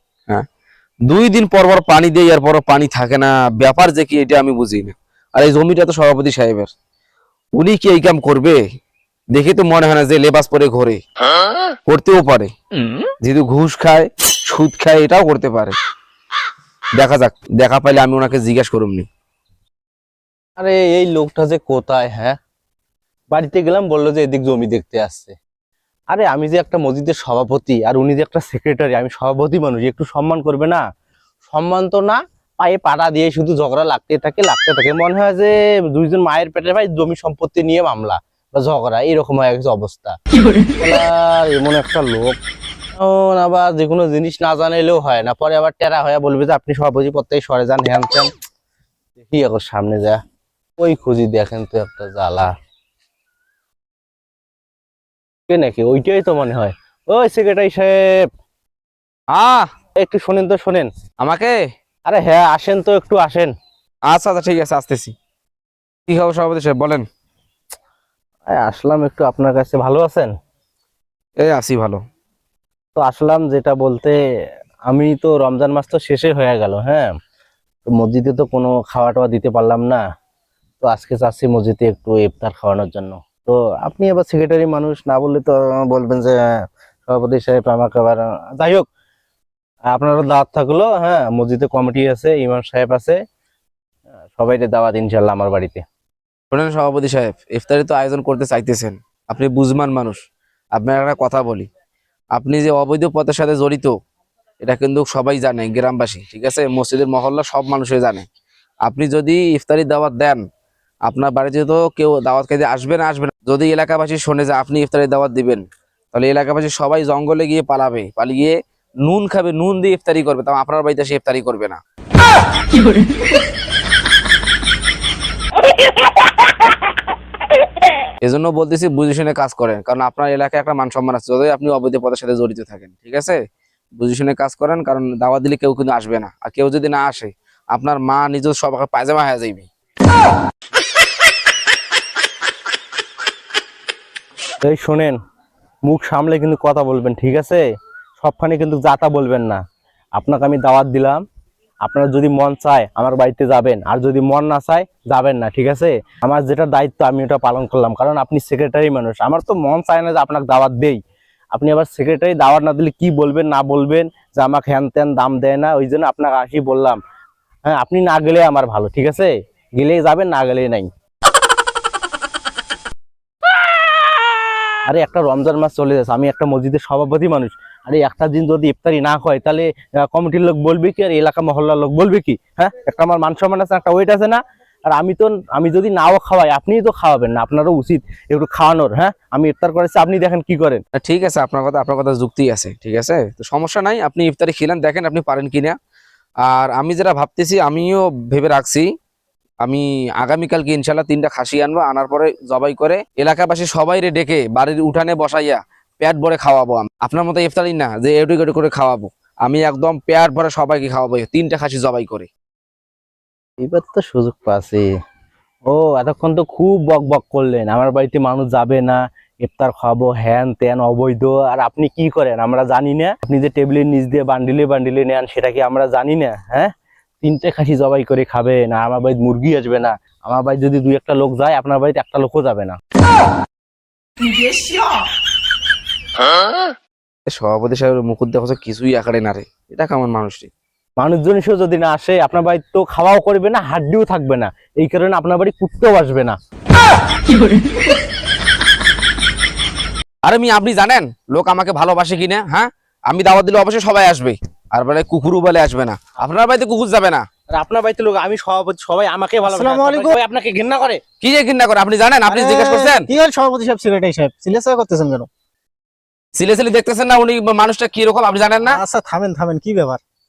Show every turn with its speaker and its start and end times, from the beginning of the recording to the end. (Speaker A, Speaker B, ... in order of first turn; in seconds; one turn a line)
Speaker A: 1.1-6.7
Speaker A: 7.6-8.6
Speaker A: 9.3-11.0
Speaker A: 11.9-12.5
Speaker A: 13.2-15.8
Speaker A: 17.0-19.1
Speaker B: 20.6-22.4
Speaker B: 23.3-25.3
Speaker B: 26.1-30.8
Speaker B: 31.5-40.2
Speaker B: 40.8-42.4
Speaker B: 43.0-48.3
Speaker B: 49.2-50.2
Speaker B: 50.8-52.5
Speaker B: 55.5-58.1
Speaker A: 59.3-59.7
Speaker B: 60.0-60.9
Speaker A: 61.2-61.5
Speaker B: 62.1-63.5
Speaker A: 64.1-65.1
Speaker A: 66.1-67.1
Speaker B: 68.5-70.3
Speaker A: 71.4-72.0
Speaker B: 73.0-74.2
Speaker B: 74.9-77.1
Speaker B: 77.9-80.0
Speaker B: 80.8-88.8
Speaker B: 89.9-93.2
Speaker B: 94.3-95.8
Speaker A: 96.5-100.2
Speaker A: 100.8-101.7
Speaker A: 102.3-103.9
Speaker A: 104.6-108.3
Speaker A: 108.8-110.4
Speaker A: 111.1-121.8
Speaker A: 128.2-133.4
Speaker A: 134.0-139.7
Speaker B: 144.6-145.2
Speaker B: 145.9-147.6
Speaker B: 148.2-149.6
Speaker B: 150.2-151.2
Speaker B: 151.8-161.0
Speaker B: 161.5-167.0
Speaker B: 167.7-170.9
Speaker B: 174.9-190.8
Speaker A: 190.9-195.8
Speaker A: 196.4-198.9
Speaker A: 199.6-212.3
Speaker B: 213.6-214.9
Speaker B: 215.7-226.7
Speaker B: 227.2-232.8
Speaker A: 237.3-240.5
Speaker B: 241.0-246.4
Speaker A: 250.2-257.2
Speaker B: 257.5-261.0
Speaker C: 259.5-260.2
Speaker A: 261.2-263.1
Speaker C: 262.3-265.3
Speaker A: 266.4-268.8
Speaker C: 268.7-270.0